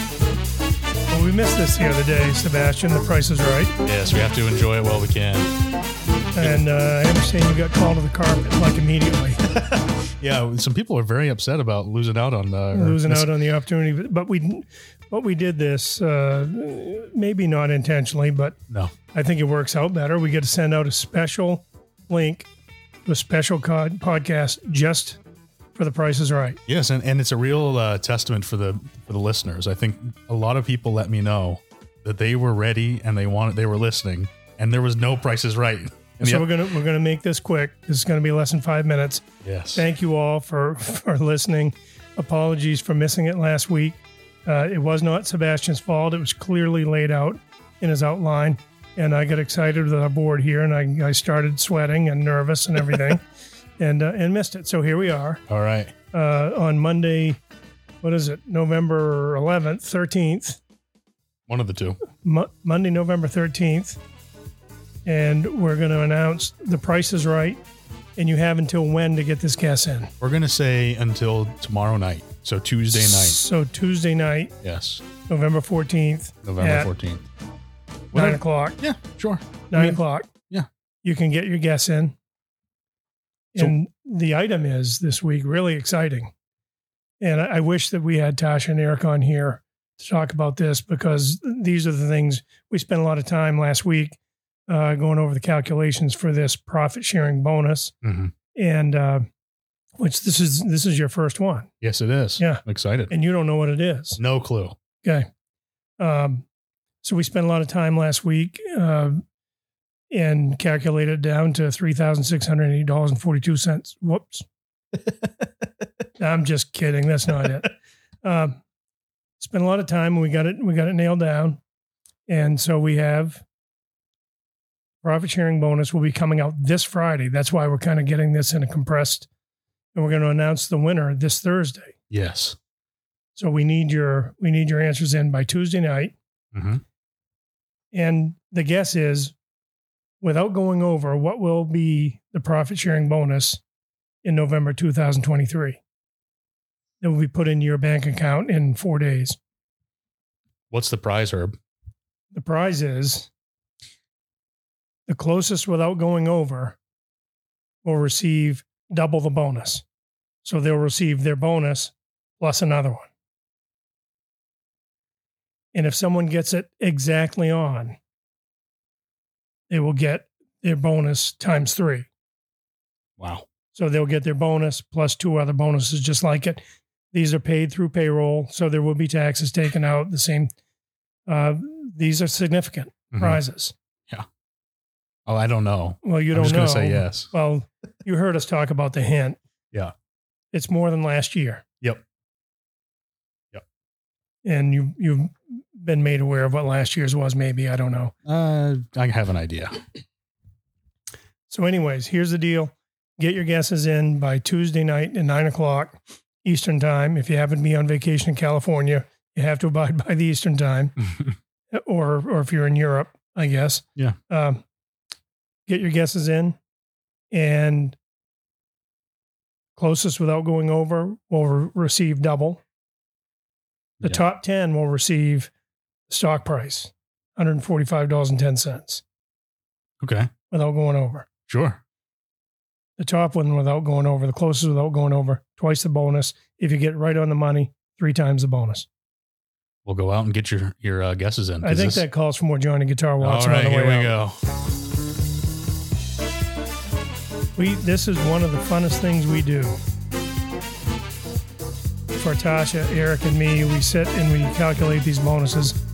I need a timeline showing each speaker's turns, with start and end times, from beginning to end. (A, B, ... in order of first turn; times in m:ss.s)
0:01.1-0:03.7 A
0:03.8-0:05.5 B
0:06.3-0:09.4 A
0:09.5-0:13.3 B
0:12.7-0:18.6 A
0:19.1-0:22.5 A
0:23.0-0:25.2 A
0:25.7-0:26.6 A
0:26.7-0:36.5 B
0:36.2-0:39.2 A
0:39.4-0:39.9 B
0:39.7-0:53.2 A
0:53.8-0:55.4 A
0:55.5-0:55.9 B
0:56.1-0:57.4 A
0:58.0-1:00.6 A
1:01.5-1:02.0 B
1:02.1-1:04.0 A
1:05.0-1:07.6 A
1:08.2-1:10.1 A
1:10.2-1:13.4 B
1:12.9-1:14.5 A
1:14.6-1:15.0 B
1:15.3-1:16.9 A
1:16.4-1:17.2 B
1:18.1-1:18.8 A
1:18.1-1:20.7 B
1:19.7-1:20.3 A
1:21.0-1:22.1 A
1:23.5-1:26.3 A
1:27.2-1:37.9 A
1:38.0-1:38.3 B
1:38.5-1:39.2 A
1:40.0-1:41.7 A
1:41.8-1:43.1 B
1:42.4-1:44.2 A
1:44.2-1:44.7 B
1:46.0-1:46.4 A
1:47.0-1:49.2 A
1:50.1-1:54.4 A
1:56.2-1:57.7 A
1:58.2-1:58.6 A
1:59.4-2:01.6 A
2:02.3-2:03.4 A
2:05.0-2:09.3 A
2:09.9-2:11.9 A
2:12.1-2:12.6 B
2:13.3-2:16.1 A
2:16.5-2:16.8 B
2:17.9-2:19.3 A
2:20.2-2:23.6 A
2:24.2-2:25.8 A
2:27.0-2:29.4 A
2:30.7-2:31.5 B
2:32.3-2:33.3 A
2:35.1-2:36.8 A
2:37.8-2:39.8 A
2:40.4-2:43.1 A
2:45.7-2:48.0 A
2:49.7-2:52.1 A
2:53.2-2:53.4 B
2:53.7-3:00.5 A
3:01.3-3:03.7 A
3:03.1-3:03.4 B
3:05.2-3:07.3 B
3:06.0-3:09.4 A
3:10.5-3:11.6 A
3:14.4-3:18.1 A
3:18.2-3:19.8 B
3:21.5-3:31.0 A
3:31.7-3:34.6 A
3:35.7-3:36.6 A
3:37.3-3:38.0 A
3:39.8-3:42.6 A
3:44.0-3:45.5 A
3:46.1-3:49.0 A
3:50.0-3:50.3 B
3:50.5-3:51.3 A
3:51.5-3:51.8 B
3:53.0-3:58.9 A
3:59.8-4:02.0 B
4:01.6-4:04.2 A
4:03.2-4:04.4 B
4:07.6-4:09.8 A
4:12.1-4:15.8 A